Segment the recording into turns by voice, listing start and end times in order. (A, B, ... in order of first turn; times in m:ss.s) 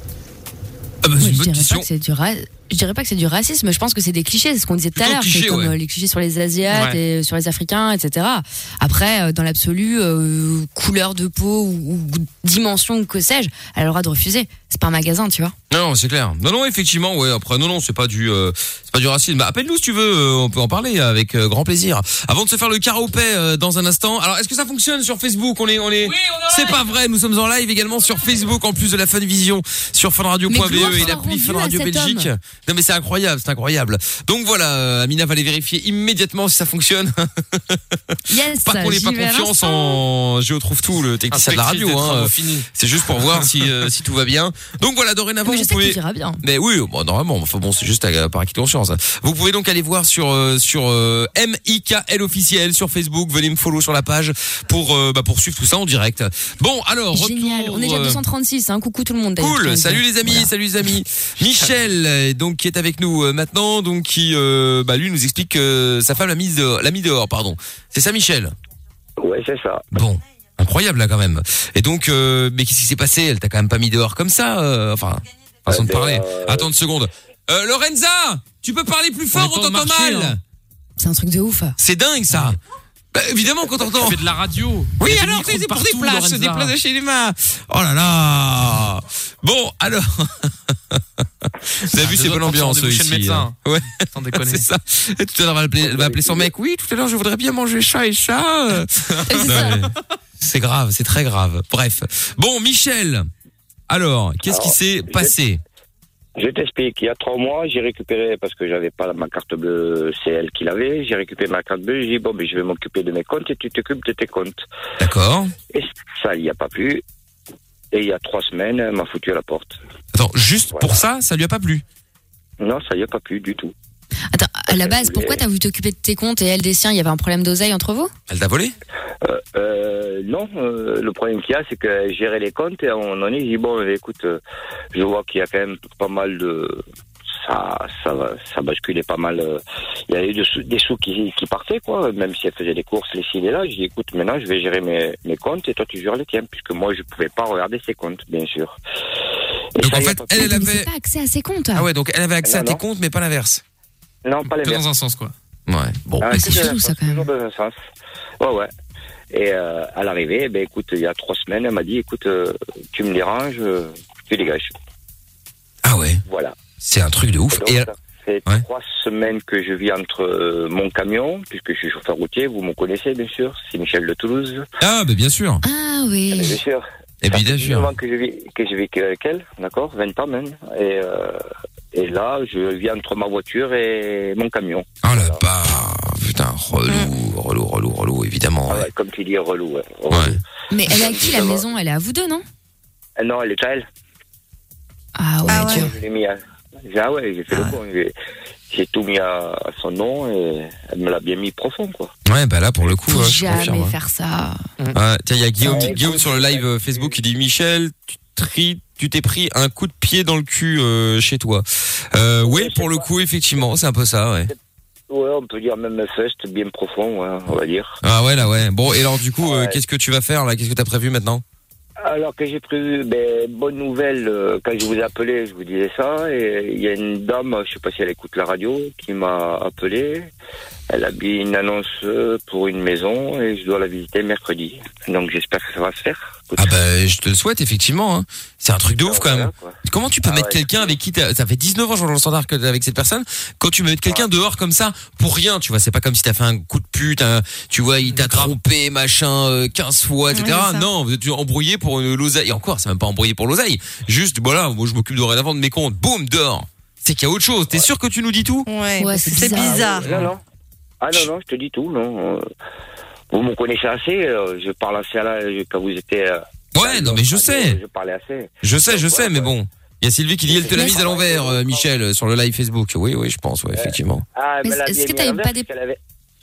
0:01.0-0:01.9 A
0:01.2-0:15.5 B
0:04.9-0:05.7 A
0:06.7-0:07.0 C
0:15.7-0:58.2 A
0:26.0-0:26.8 C
0:30.5-0:32.3 B
0:38.3-0:40.0 B
0:41.3-0:42.7 C
0:43.2-0:43.5 C
0:45.4-0:46.4 B
0:57.1-1:00.5 B
0:59.4-1:08.5 A
1:09.2-1:09.9 D
1:09.9-1:20.4 A
1:15.7-1:16.7 D
1:19.3-1:20.4 C
1:21.0-1:21.8 B
1:21.8-1:22.6 A
1:23.1-1:24.2 A
1:23.8-1:26.7 C
1:25.0-1:43.3 A
1:31.9-1:33.5 C
1:34.1-1:34.7 C
1:35.8-1:36.5 D
1:39.1-1:39.6 C
1:39.3-1:39.7 B
1:43.9-1:45.6 A
1:44.5-1:45.3 D
1:46.4-1:54.6 D
1:55.0-1:55.5 A
1:55.7-1:57.0 D
1:57.9-1:59.8 D
2:00.1-2:01.8 A
2:00.7-2:01.0 D
2:02.6-2:03.7 D
2:04.3-2:08.1 B
2:04.7-2:05.4 D
2:08.3-2:08.7 A
2:09.2-2:14.4 D
2:14.9-2:16.8 D
2:17.4-2:28.8 D
2:29.8-2:30.5 D
2:29.8-2:30.9 A
2:30.4-2:31.9 B
2:31.7-2:33.6 A
2:32.4-2:32.8 D
2:34.2-2:34.8 D
2:34.4-2:35.3 C
2:35.7-2:36.7 A
2:36.2-2:37.8 D
2:36.3-2:37.2 B
2:38.4-2:38.7 D
2:39.3-2:44.7 D
2:45.8-2:46.2 A
2:46.2-2:46.6 D
2:46.8-2:47.9 A
2:47.5-2:54.7 D
2:54.8-2:55.6 A
2:55.6-2:56.6 B
2:56.3-3:05.4 D
2:57.2-2:57.9 A
3:05.0-3:08.9 A
3:08.7-3:11.6 D
3:10.1-3:10.4 A
3:10.7-3:12.4 B
3:13.2-3:13.9 D
3:15.2-3:15.9 B
3:15.5-3:15.9 E
3:15.5-3:18.1 D
3:18.7-3:22.1 D
3:22.2-3:23.9 A
3:23.0-3:24.6 B
3:24.9-3:34.5 A
3:25.6-3:27.2 D
3:32.4-3:33.1 D
3:35.1-3:38.0 D
3:38.0-3:41.4 A
3:39.4-3:39.8 D
3:42.0-3:50.3 D
3:50.9-3:56.7 D
3:56.6-4:18.7 A
3:59.0-4:00.9 D
4:08.1-4:08.5 C
4:10.3-4:10.8 E
4:18.7-4:20.1 E
4:19.0-4:19.9 B
4:19.4-4:20.4 D
4:21.0-4:22.4 D
4:23.3-4:29.5 D
4:26.7-4:27.8 A
4:28.6-4:34.2 A
4:30.5-4:31.9 D
4:30.7-4:31.0 B
4:33.7-4:36.0 D
4:34.6-4:35.6 B